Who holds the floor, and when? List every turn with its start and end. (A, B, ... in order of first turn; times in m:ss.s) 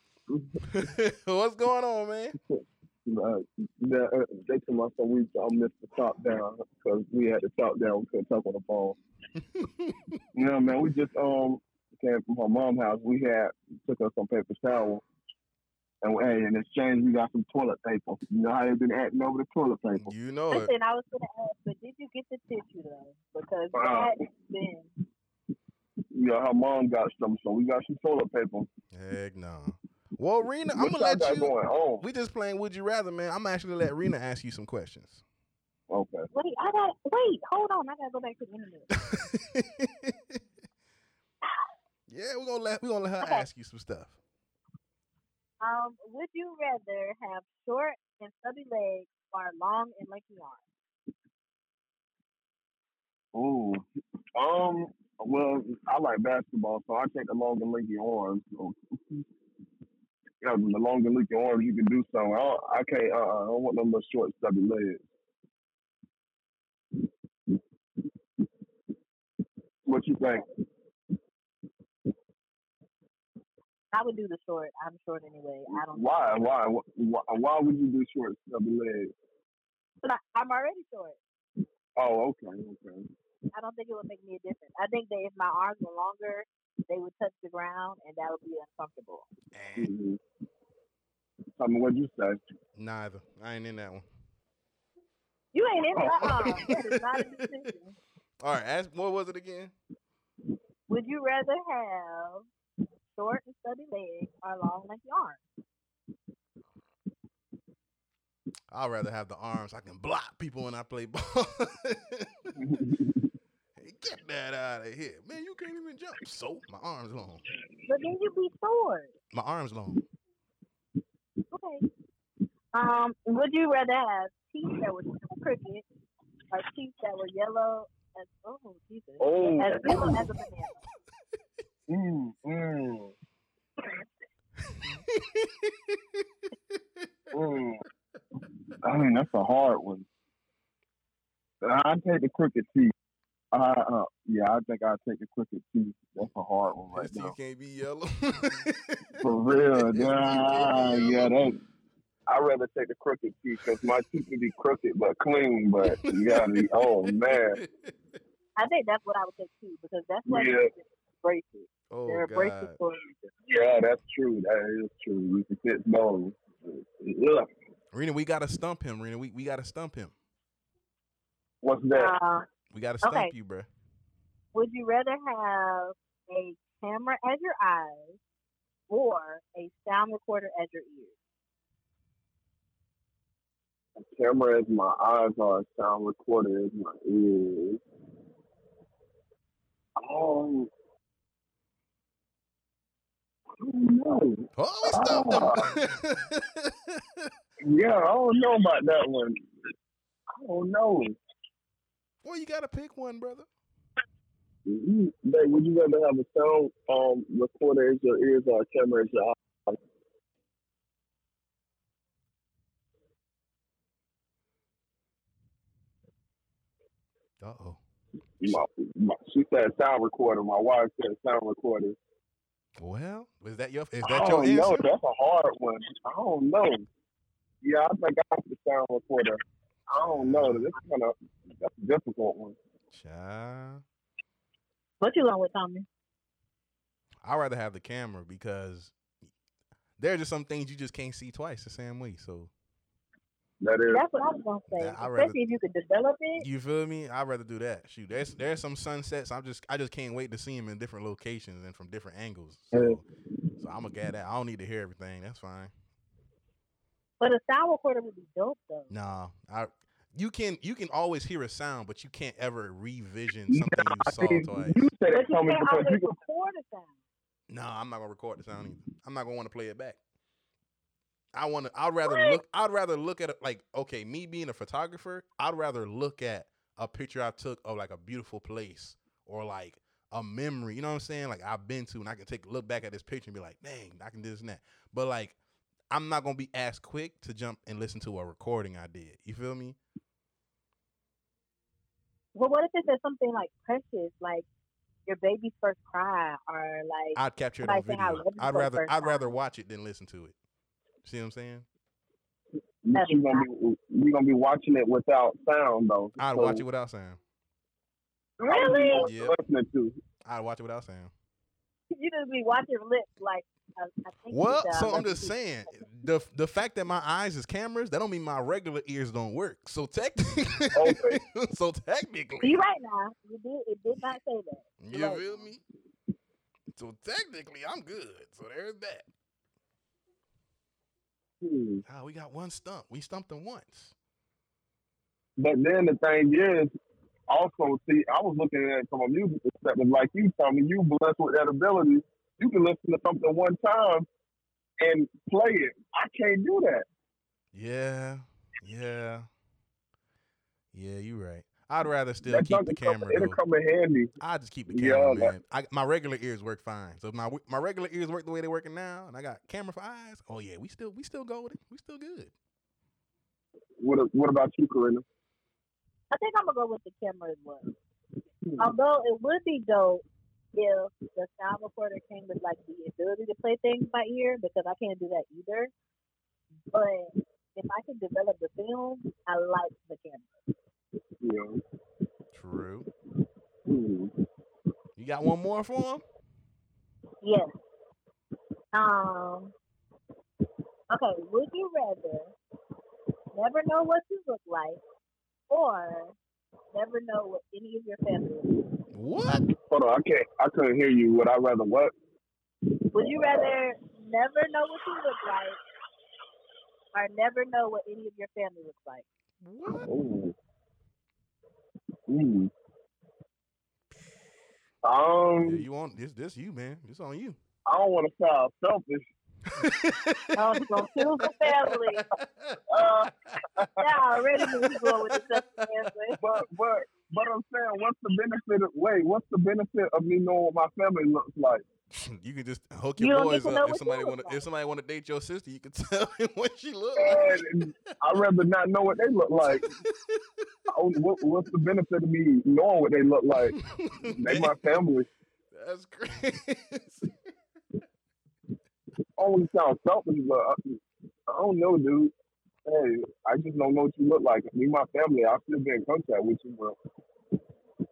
0:00.3-0:00.6 A
0:00.7-0:02.4 B
0:02.5-0:09.0 A
0:09.6-0:10.2 B
0:10.4-0:15.0 A
0:16.0-0:20.1 A
0:20.0-0:20.7 B
0:20.5-0:24.9 C
0:23.7-0:24.1 A
0:26.1-0:28.7 A
0:28.9-0:35.2 B
0:30.7-0:32.0 A
0:35.9-0:36.3 A
0:36.3-0:38.9 C
0:38.9-0:40.4 B
0:42.1-0:44.2 B
0:45.6-0:50.6 C
0:53.3-0:53.8 A
0:54.4-0:59.2 A
1:00.4-1:05.1 A
1:09.9-1:10.5 A
1:13.9-1:16.0 C
1:15.7-1:19.1 A
1:20.0-1:21.2 C
1:22.0-1:23.1 A
1:23.5-1:29.3 C
1:29.5-1:29.9 B
1:29.8-1:30.2 A
1:31.6-1:32.4 A
1:32.8-1:34.1 B
1:35.5-1:38.0 C
1:36.0-1:36.6 A
1:36.3-1:37.5 B
1:38.4-1:39.7 B
1:40.9-1:42.5 C
1:43.1-1:45.4 C
1:48.7-1:52.3 B
1:52.6-1:53.2 A
1:53.8-1:57.4 B
1:57.9-1:59.1 C
1:59.3-2:00.0 B
2:01.5-2:01.8 C
2:02.7-2:05.8 C
2:06.5-2:10.8 C
2:09.2-2:10.3 A
2:11.9-2:13.1 A
2:15.1-2:16.0 B
2:17.3-2:17.8 A
2:18.8-2:20.1 A
2:21.6-2:22.9 A
2:23.5-2:27.4 A
2:26.9-2:31.3 B
2:29.2-2:31.6 A
2:32.3-2:37.6 A
2:35.8-2:37.9 B
2:38.6-2:43.0 C
2:40.3-2:40.7 A
2:41.9-2:42.8 B
2:43.5-2:47.5 A
2:47.9-2:50.1 B
2:51.6-2:52.1 A
2:51.9-2:52.5 C
2:52.7-2:53.7 B
2:53.0-2:53.3 C
2:54.5-2:58.2 C
2:58.9-3:01.1 C
3:04.0-3:07.8 A
3:10.0-3:10.7 A
3:13.6-3:15.7 A
3:14.6-3:17.3 B
3:17.6-3:19.4 A
3:20.3-3:21.2 A
3:22.2-3:23.5 B
3:24.7-3:29.8 A
3:37.4-3:37.8 B
3:38.4-3:42.0 A
3:42.8-3:44.8 B
3:44.0-3:46.9 A
3:47.6-3:52.6 A
3:50.0-3:50.7 B
3:52.9-3:53.8 B
3:55.0-3:55.9 C
3:57.2-3:59.0 B
4:00.0-4:02.5 B
4:03.6-4:04.0 A
4:03.9-4:06.4 C
4:04.7-4:05.4 B
4:06.4-4:13.0 B
4:12.7-4:13.0 A
4:13.6-4:15.7 B
4:17.2-4:18.9 C
4:18.9-4:24.8 B
4:23.5-4:26.2 A
4:25.1-4:26.9 C
4:27.5-4:30.0 B
4:31.3-4:45.4 B
4:32.0-4:32.4 C
4:45.9-4:49.8 B
4:52.4-4:54.5 C
4:55.1-4:59.3 C
4:57.2-5:00.4 B
5:01.0-5:01.7 B
5:02.8-5:06.6 A
5:02.9-5:03.5 C
5:06.2-5:07.2 B
5:08.4-5:10.0 A
5:08.5-5:09.1 C
5:09.0-5:09.4 B
5:10.2-5:11.1 B
5:11.9-5:15.4 C
5:14.3-5:22.6 B
5:20.7-5:21.2 A
5:22.4-5:25.4 C
5:24.8-5:25.6 B
5:26.7-5:29.1 B
5:31.4-5:31.8 A
5:31.8-5:34.0 B
5:35.4-5:36.7 A
5:37.3-5:44.1 A
5:44.8-5:46.9 A
5:47.5-5:49.3 B
5:50.7-5:53.4 B
5:52.2-5:54.1 A
5:54.2-6:02.3 B
5:54.7-5:55.4 A
6:03.8-6:05.0 A
6:06.1-6:07.7 C
6:08.4-6:08.7 A
6:08.6-6:10.0 C
6:10.6-6:15.7 C
6:16.7-6:20.3 C
6:21.2-6:21.6 A
6:22.3-6:22.9 B
6:23.7-6:24.1 A
6:25.0-6:26.0 B
6:27.2-6:27.5 C
6:28.7-6:29.5 C
6:30.9-6:32.3 C
6:33.4-6:34.8 C
6:35.5-6:36.2 C
6:36.7-6:38.5 C
6:38.9-6:39.4 B
6:39.5-6:41.9 A
6:42.9-6:45.6 C
6:43.0-6:43.5 A
6:46.9-6:49.0 C
6:49.4-6:49.9 B
6:49.7-6:50.4 A
6:52.1-6:52.5 A
6:54.8-6:55.6 A
6:55.4-6:57.4 B
6:57.7-6:59.1 A
6:59.5-7:00.7 B
7:00.4-7:02.0 C
7:01.4-7:02.6 B
7:02.7-7:03.9 A
7:03.8-7:06.2 C
7:04.4-7:05.7 B
7:06.2-7:11.6 A
7:11.9-7:17.4 B
7:13.0-7:14.4 C
7:17.0-7:19.7 A
7:19.4-7:20.2 B
7:20.7-7:23.6 A
7:23.4-7:24.8 B
7:24.2-7:25.1 A
7:25.5-7:27.1 B
7:29.2-7:32.1 A
7:32.6-7:36.8 A